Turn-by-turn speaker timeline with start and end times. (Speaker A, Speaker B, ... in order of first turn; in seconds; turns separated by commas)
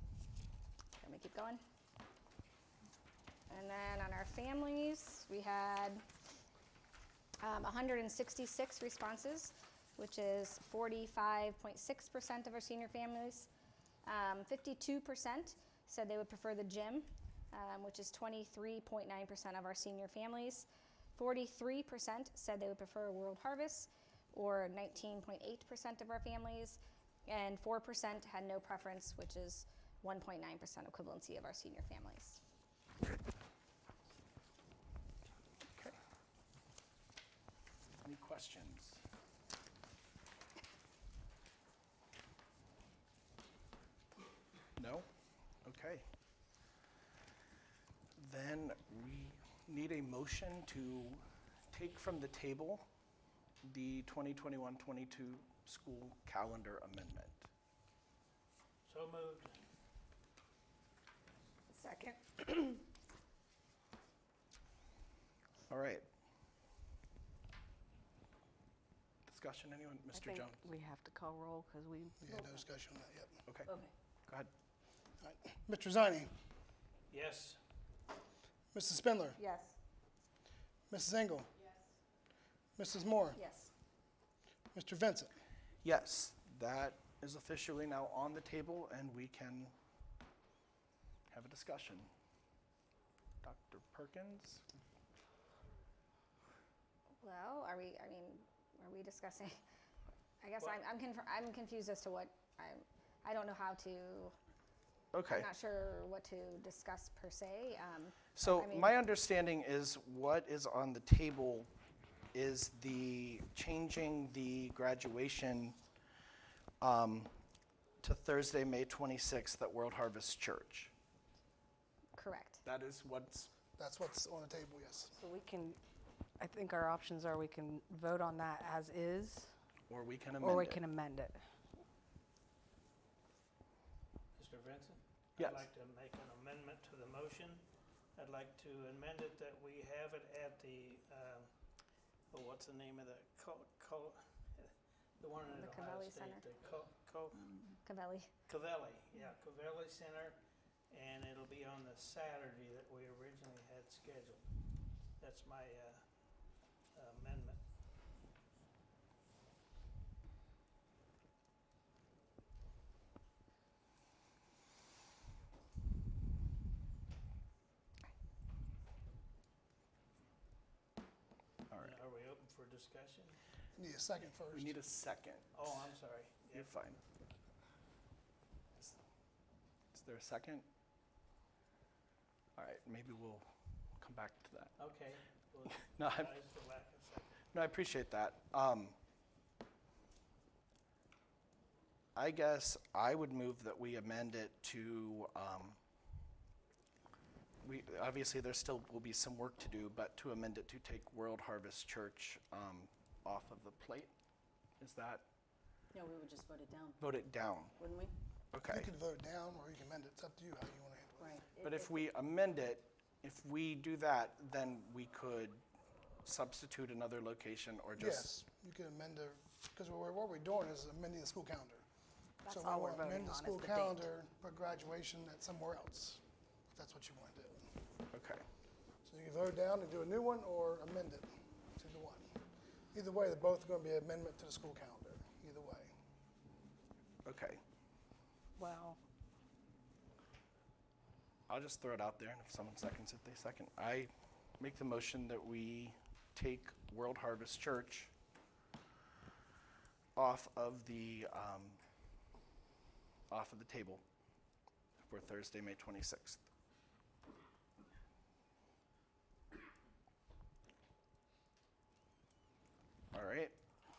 Speaker A: 1.0-1.6, Speaker A: 3.5-6.0, Speaker A: 7.4-13.5, Speaker A: 14.1-32.4, Speaker B: 35.6-36.0, Speaker B: 38.0-39.0, Speaker B: 44.8-45.1, Speaker B: 45.6-46.0, Speaker B: 48.1-52.8, Speaker B: 53.6-57.5, Speaker C: 58.8-59.5, Speaker A: 61.7-62.8, Speaker B: 65.7-66.0, Speaker B: 69.3-70.6, Speaker D: 70.1-72.6, Speaker E: 72.2-73.4, Speaker B: 73.5-73.7, Speaker F: 73.7-73.9, Speaker E: 75.2-76.3, Speaker C: 77.1-77.6, Speaker E: 78.7-79.4, Speaker E: 80.9-81.5, Speaker E: 82.8-83.4, Speaker F: 83.4-83.7, Speaker E: 84.7-85.3, Speaker B: 85.8-89.7, Speaker B: 91.3-92.1, Speaker B: 93.4-94.6, Speaker A: 97.2-99.6, Speaker A: 100.4-104.3, Speaker B: 105.1-105.5, Speaker A: 105.3-109.0, Speaker B: 108.4-111.7, Speaker B: 112.3-115.8, Speaker B: 116.8-117.3, Speaker B: 118.0-120.9, Speaker A: 122.1-122.6, Speaker B: 122.6-123.5, Speaker E: 123.8-125.1, Speaker D: 125.1-125.8, Speaker D: 126.4-129.5, Speaker B: 129.9-130.8, Speaker D: 130.4-131.4, Speaker C: 134.4-137.6, Speaker B: 135.4-135.6, Speaker C: 138.1-141.5, Speaker C: 142.3-147.6, Speaker A: 145.6-146.4, Speaker A: 147.6-148.3, Speaker C: 148.5-150.4, Speaker C: 150.9-154.4, Speaker C: 155.2-156.1, Speaker C: 156.9-157.6, Speaker B: 171.7-172.0, Speaker C: 171.8-173.4, Speaker E: 173.7-174.8, Speaker B: 174.5-175.9, Speaker C: 175.5-176.9, Speaker B: 176.5-177.0, Speaker B: 179.9-180.7, Speaker B: 182.6-184.7, Speaker C: 184.8-187.4, Speaker B: 185.7-186.3, Speaker B: 187.5-189.0, Speaker B: 192.1-195.8, Speaker B: 197.6-204.1, Speaker B: 204.8-205.2, Speaker F: 205.9-207.0, Speaker B: 207.0-207.8, Speaker F: 207.8-208.1, Speaker B: 208.5-208.9, Speaker E: 208.7-211.4, Speaker F: 211.2-211.7, Speaker B: 211.6-215.6, Speaker B: 216.2-218.3, Speaker E: 218.0-221.8, Speaker D: 222.4-224.1, Speaker E: 222.4-226.2, Speaker E: 226.7-227.6, Speaker B: 228.1-228.4, Speaker E: 229.0-232.3, Speaker E: 232.9-235.9, Speaker B: 237.2-237.6, Speaker D: 238.6-239.0, Speaker B: 241.5-248.1, Speaker B: 250.2-251.8, Speaker B: 253.3-254.0, Speaker B: 255.0-256.4, Speaker B: 263.1-263.6